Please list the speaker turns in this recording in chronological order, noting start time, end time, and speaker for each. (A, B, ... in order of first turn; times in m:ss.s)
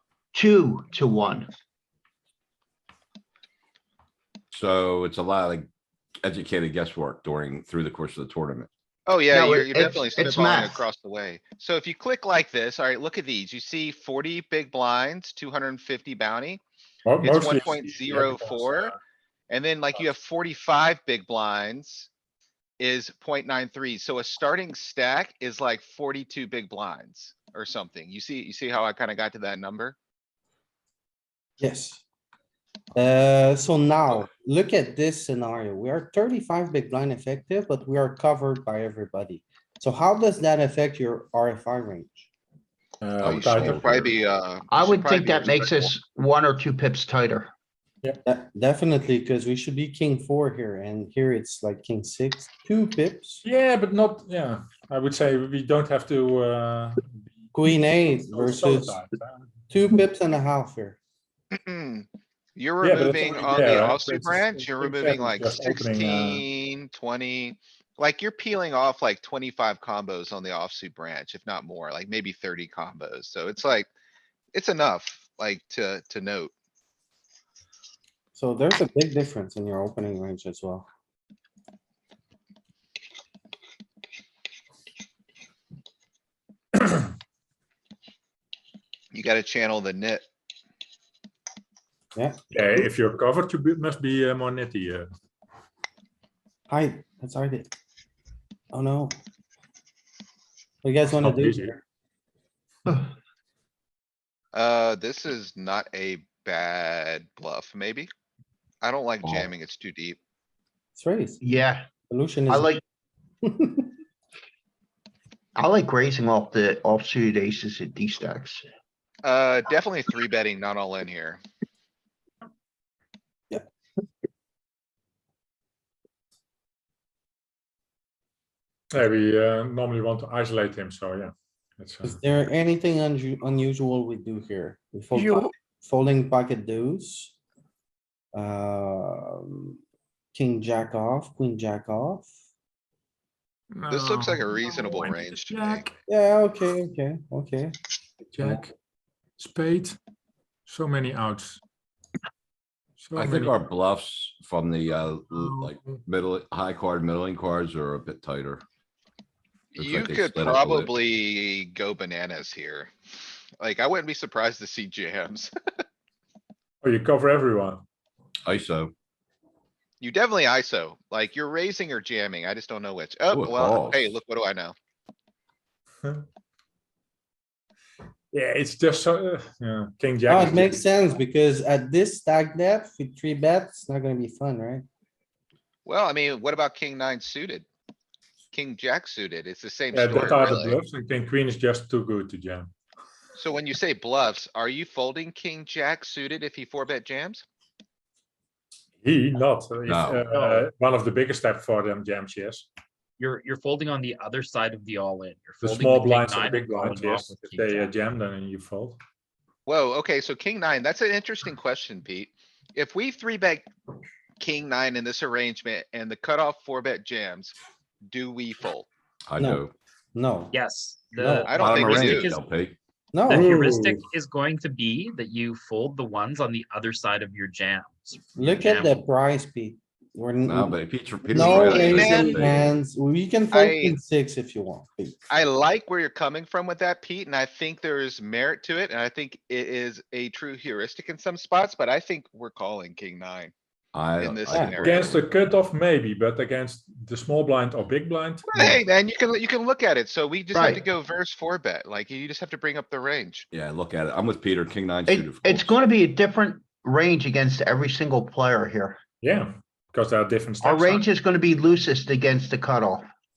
0:00.3-0:01.5 A
0:04.5-0:05.7 B
0:06.2-0:08.7 B
0:09.1-0:16.6 C
0:09.3-0:10.8 A
0:17.1-0:18.9 D
0:17.2-0:19.0 C
0:19.5-0:22.1 C
0:22.8-0:30.0 C
0:31.6-0:32.0 E
0:33.0-0:42.3 E
0:43.0-0:44.1 D
0:43.2-0:44.1 B
0:43.3-0:45.9 C
0:44.7-0:47.5 A
0:48.2-0:53.4 E
0:53.4-0:57.5 D
0:57.5-0:59.0 E
0:58.2-0:59.5 D
0:59.7-1:01.0 E
1:01.6-1:13.9 C
1:02.8-1:06.4 D
1:14.5-1:16.5 C
1:18.4-1:20.9 E
1:29.1-1:30.3 C
1:32.5-1:35.1 D
1:36.7-1:37.7 E
1:38.7-1:39.2 E
1:40.8-1:41.8 E
1:41.2-1:41.7 D
1:44.5-1:48.1 C
1:48.8-1:50.2 C
1:49.2-1:49.5 B
1:51.0-1:51.4 E
1:51.4-1:51.9 A
1:52.1-1:52.8 E
1:52.5-1:52.8 A
1:53.4-1:53.9 E
1:55.6-1:58.7 A
1:59.2-2:01.4 C
2:08.9-2:12.2 D
2:12.0-2:17.4 E
2:18.3-2:19.8 E
2:20.3-2:22.3 E
2:23.7-2:25.9 D
2:23.9-2:25.8 C
2:26.1-2:27.8 E
2:28.4-2:28.7 D
2:29.4-2:30.0 D
2:30.7-2:31.6 D
2:33.0-2:33.6 D
2:33.1-2:38.6 B
2:39.8-2:42.9 C
2:39.8-2:40.9 B
2:43.6-2:45.5 C
2:46.8-2:47.8 D
2:48.5-2:48.9 B
2:50.0-2:54.8 C
2:53.3-2:54.2 B
2:58.3-3:00.8 D
3:00.3-3:04.8 E
3:05.9-3:07.7 C
3:08.5-3:10.8 C
3:09.9-3:12.7 D
3:13.4-3:17.4 C
3:19.0-3:22.7 D
3:19.9-3:20.3 B
3:20.3-3:20.7 F
3:23.2-3:27.9 F
3:25.6-3:29.0 D
3:29.7-3:33.7 C
3:34.4-3:37.6 C
3:38.1-3:38.9 C
3:39.3-3:39.7 B
3:40.2-3:40.6 E
3:40.5-3:42.4 F
3:41.2-3:41.5 E
3:41.5-3:42.3 C
3:41.5-3:42.8 B
3:43.1-3:43.5 E
3:43.3-3:49.0 F
3:43.3-3:44.0 D
3:48.4-3:55.2 E
3:50.4-3:52.8 B
3:51.4-3:52.5 C
3:53.5-3:54.0 C
3:55.3-4:03.5 C
4:03.9-4:05.1 B
4:04.2-4:05.2 C
4:04.5-4:04.8 E
4:04.8-4:08.8 D
4:08.5-4:13.5 C
4:10.5-4:10.8 A
4:13.5-4:15.7 B
4:15.1-4:19.0 A
4:19.2-4:21.0 D
4:20.6-4:23.1 A